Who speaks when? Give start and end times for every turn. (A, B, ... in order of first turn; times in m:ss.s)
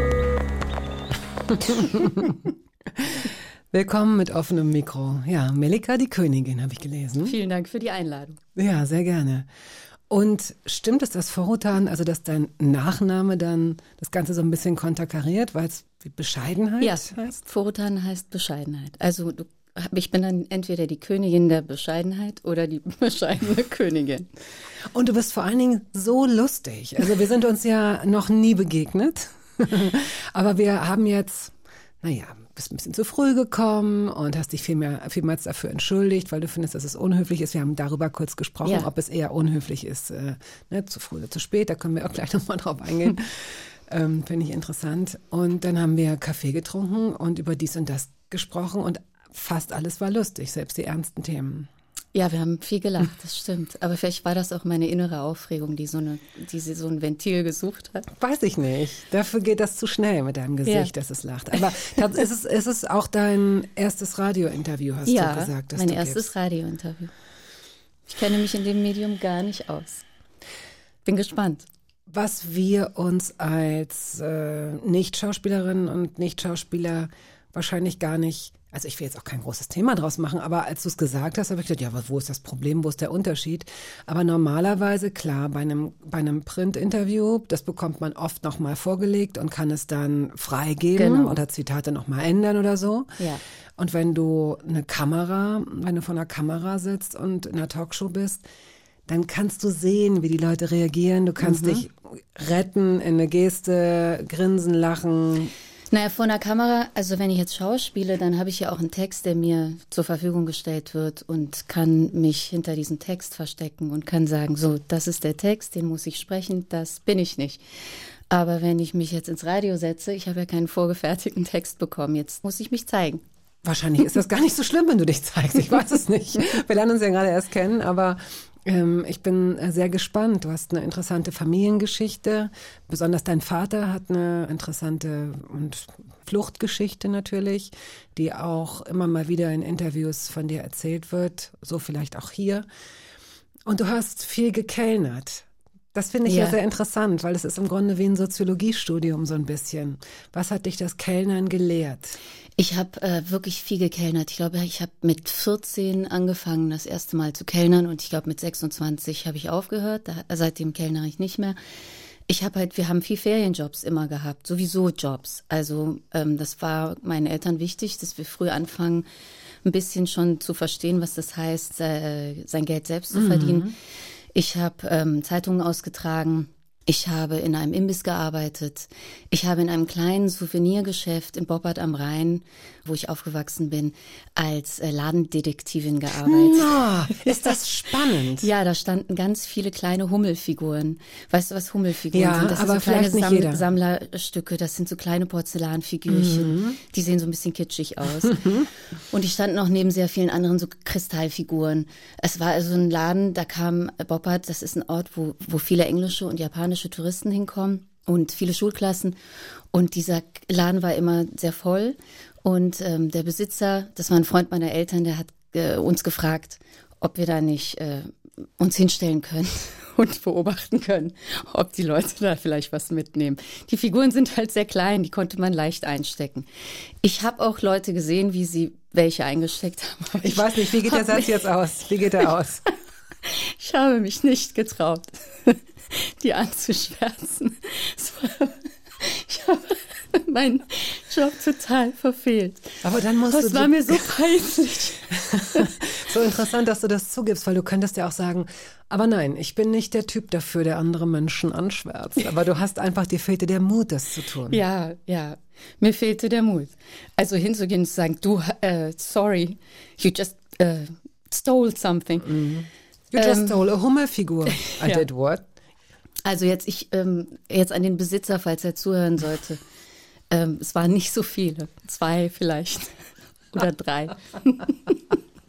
0:01.5-0:07.4 A
0:07.2-0:08.4 B
0:08.6-0:09.5 A
0:10.1-0:17.4 A
0:16.8-0:24.3 B
0:24.9-0:51.7 A
0:52.1-0:58.1 B
0:58.1-1:06.3 A
1:00.6-1:00.9 B
1:05.0-1:07.1 B
1:08.1-1:10.0 B
1:11.0-1:11.6 B
1:12.1-1:33.2 A
1:30.9-1:31.4 B
1:33.8-1:38.4 A
1:39.1-1:45.5 A
1:41.4-1:41.8 B
1:45.9-1:57.6 B
1:58.3-2:03.2 B
2:03.6-2:22.6 A
2:23.6-2:32.2 A
2:26.2-2:26.6 B
2:32.6-2:41.6 B
2:42.3-2:49.0 B
2:49.6-2:53.7 B
2:53.1-2:53.7 A
2:54.3-3:07.5 B
3:06.2-3:08.5 A
3:08.4-3:18.6 B
3:12.1-3:13.6 A
3:16.1-3:16.8 A
3:18.2-3:18.7 A
3:19.1-3:29.2 B
3:29.7-3:46.5 B
3:47.0-3:51.3 B
3:50.2-3:52.6 A
3:53.2-4:02.7 B
4:02.8-4:04.1 A
4:03.3-4:05.8 B
4:05.1-4:14.6 A
4:14.5-4:22.3 B
4:22.2-4:25.4 A
4:23.2-4:23.6 B
4:24.5-4:25.0 B
4:26.2-4:29.6 B
4:30.3-4:33.0 B
4:33.5-4:35.1 B